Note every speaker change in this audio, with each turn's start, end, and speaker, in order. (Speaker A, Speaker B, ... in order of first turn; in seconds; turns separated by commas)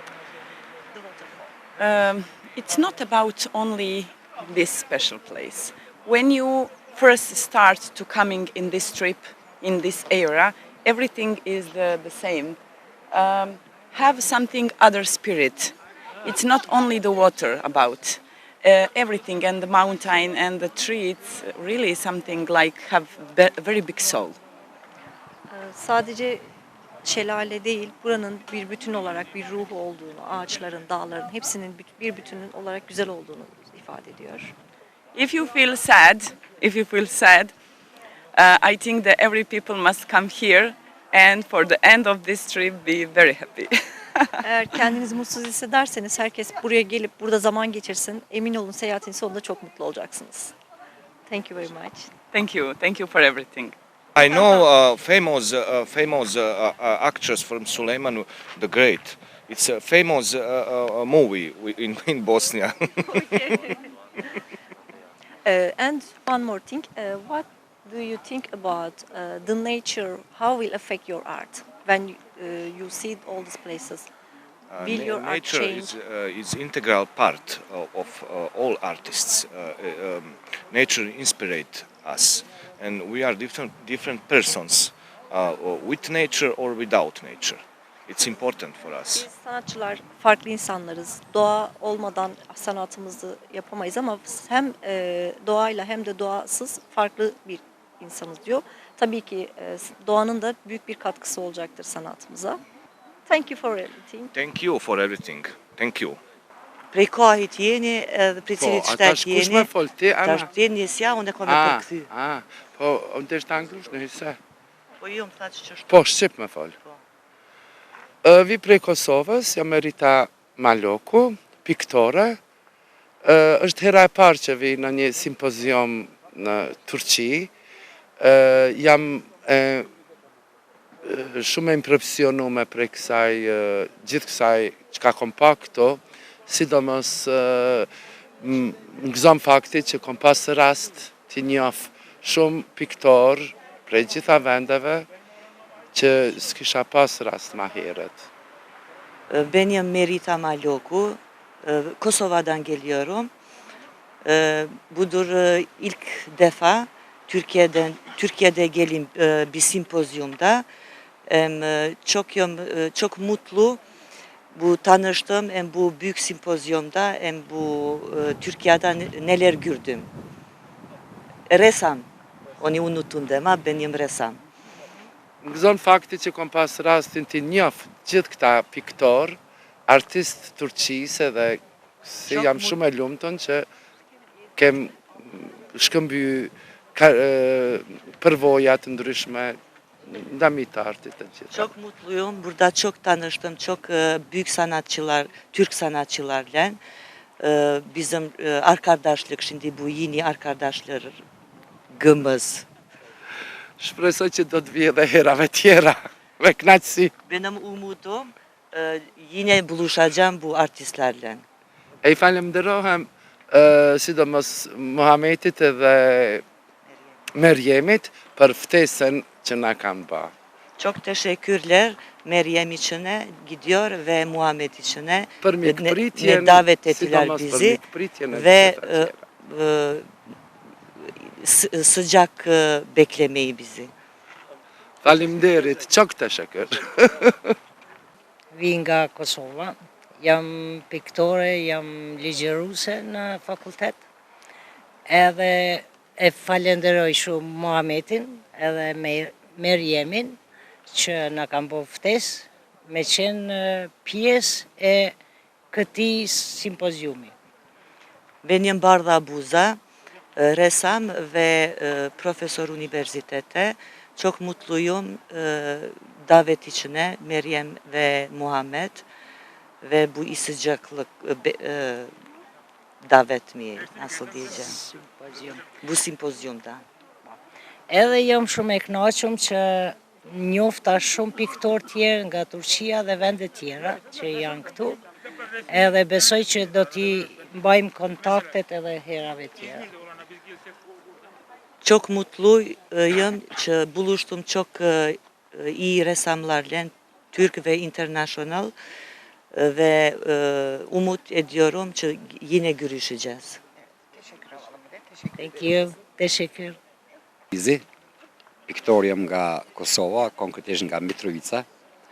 Speaker A: 1.0-1.4, Speaker B: 1.8-12.6, Speaker B: 13.1-24.4, Speaker A: 25.5-26.4, Speaker A: 27.0-34.5, Speaker B: 35.1-37.5, Speaker B: 38.4-44.3, Speaker A: 44.4-50.5, Speaker A: 51.3-52.1, Speaker B: 52.3-53.8, Speaker C: 54.2-63.3, Speaker A: 63.1-63.8, Speaker A: 65.5-74.1, Speaker C: 74.7-89.3, Speaker A: 74.8-75.9, Speaker A: 89.1-102.6, Speaker A: 103.3-104.3, Speaker C: 104.3-106.2, Speaker D: 106.9-109.7, Speaker E: 108.6-110.5, Speaker D: 110.2-112.1, Speaker E: 111.5-114.4, Speaker D: 115.0-116.1, Speaker E: 115.9-116.7, Speaker E: 118.2-122.4, Speaker E: 123.2-127.5, Speaker E: 128.2-129.9, Speaker E: 131.1-137.9, Speaker E: 138.4-145.1, Speaker E: 145.9-148.3, Speaker D: 149.3-153.3, Speaker D: 154.2-160.7, Speaker D: 161.3-163.8, Speaker D: 164.5-170.1, Speaker D: 171.5-172.1, Speaker D: 172.6-174.4, Speaker E: 175.4-183.7, Speaker D: 182.3-182.8, Speaker E: 184.6-191.7, Speaker D: 191.5-196.8, Speaker D: 197.4-201.2, Speaker D: 201.9-202.7, Speaker E: 203.8-207.1, Speaker D: 207.3-211.4, Speaker E: 212.0-216.4, Speaker E: 217.4-220.3, Speaker D: 220.8-230.1, Speaker E: 225.4-229.2, Speaker D: 231.1-233.9, Speaker E: 235.0-237.6, Speaker F: 238.5-244.0, Speaker F: 245.1-255.2, Speaker F: 255.7-257.3, Speaker D: 258.4-259.8, Speaker D: 260.4-269.1, Speaker D: 269.8-272.1, Speaker D: 273.1-274.8, Speaker F: 274.8-275.6, Speaker D: 275.8-276.8, Speaker F: 277.9-285.0, Speaker F: 285.7-289.9, Speaker D: 291.8-298.7, Speaker D: 299.5-303.6, Speaker F: 305.4-306.8, Speaker G: 307.5-307.8, Speaker G: 308.7-311.7